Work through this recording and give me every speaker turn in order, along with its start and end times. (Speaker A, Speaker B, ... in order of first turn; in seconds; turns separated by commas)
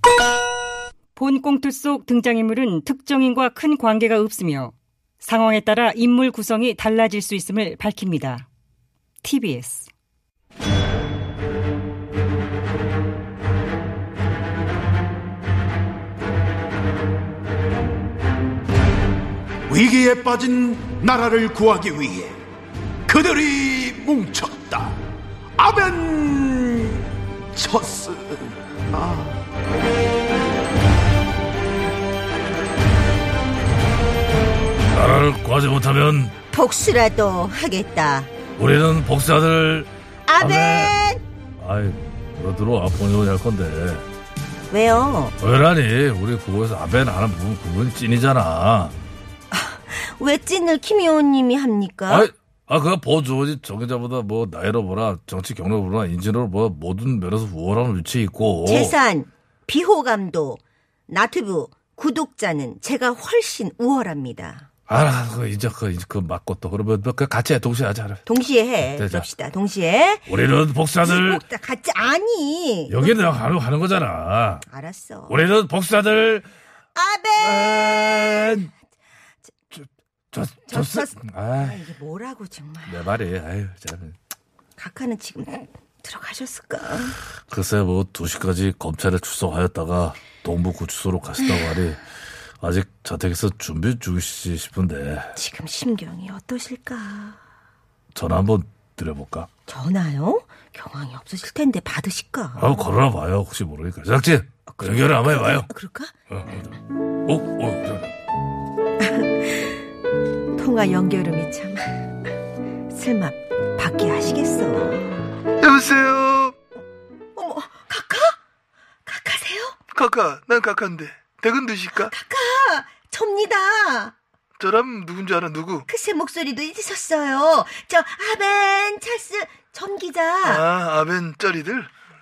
Speaker A: 1.1-8.5, Speaker A: 9.2-9.9, Speaker B: 19.7-22.4, Speaker B: 23.1-25.0, Speaker B: 25.6-29.3, Speaker C: 34.9-36.3, Speaker D: 36.5-38.3, Speaker C: 38.6-40.9, Speaker D: 40.2-41.2, Speaker C: 41.6-44.0, Speaker D: 44.7-45.4, Speaker C: 45.4-49.0, Speaker D: 49.5-52.3, Speaker C: 52.1-58.9, Speaker D: 58.6-64.7, Speaker C: 64.9-68.2, Speaker D: 68.2-70.3, Speaker C: 68.9-69.3, Speaker C: 70.3-71.4, Speaker D: 71.0-73.1, Speaker C: 72.9-74.6, Speaker D: 74.7-75.4, Speaker C: 75.3-76.5, Speaker D: 76.9-77.9, Speaker C: 77.4-78.7, Speaker C: 79.7-81.8, Speaker D: 80.7-83.0, Speaker C: 82.8-84.2, Speaker D: 84.8-87.2, Speaker C: 87.5-92.0, Speaker D: 91.4-91.7, Speaker C: 92.6-95.3, Speaker D: 95.3-97.4, Speaker C: 98.1-99.5, Speaker D: 99.7-102.8, Speaker C: 102.6-105.7, Speaker D: 104.7-106.1, Speaker C: 106.3-108.1, Speaker D: 109.0-109.7, Speaker D: 110.5-112.1, Speaker D: 112.9-115.3, Speaker E: 115.6-116.5, Speaker D: 117.3-118.4, Speaker D: 119.0-119.8, Speaker E: 119.9-122.1, Speaker D: 122.0-124.1, Speaker E: 124.6-125.8, Speaker D: 125.9-130.6, Speaker E: 130.4-131.9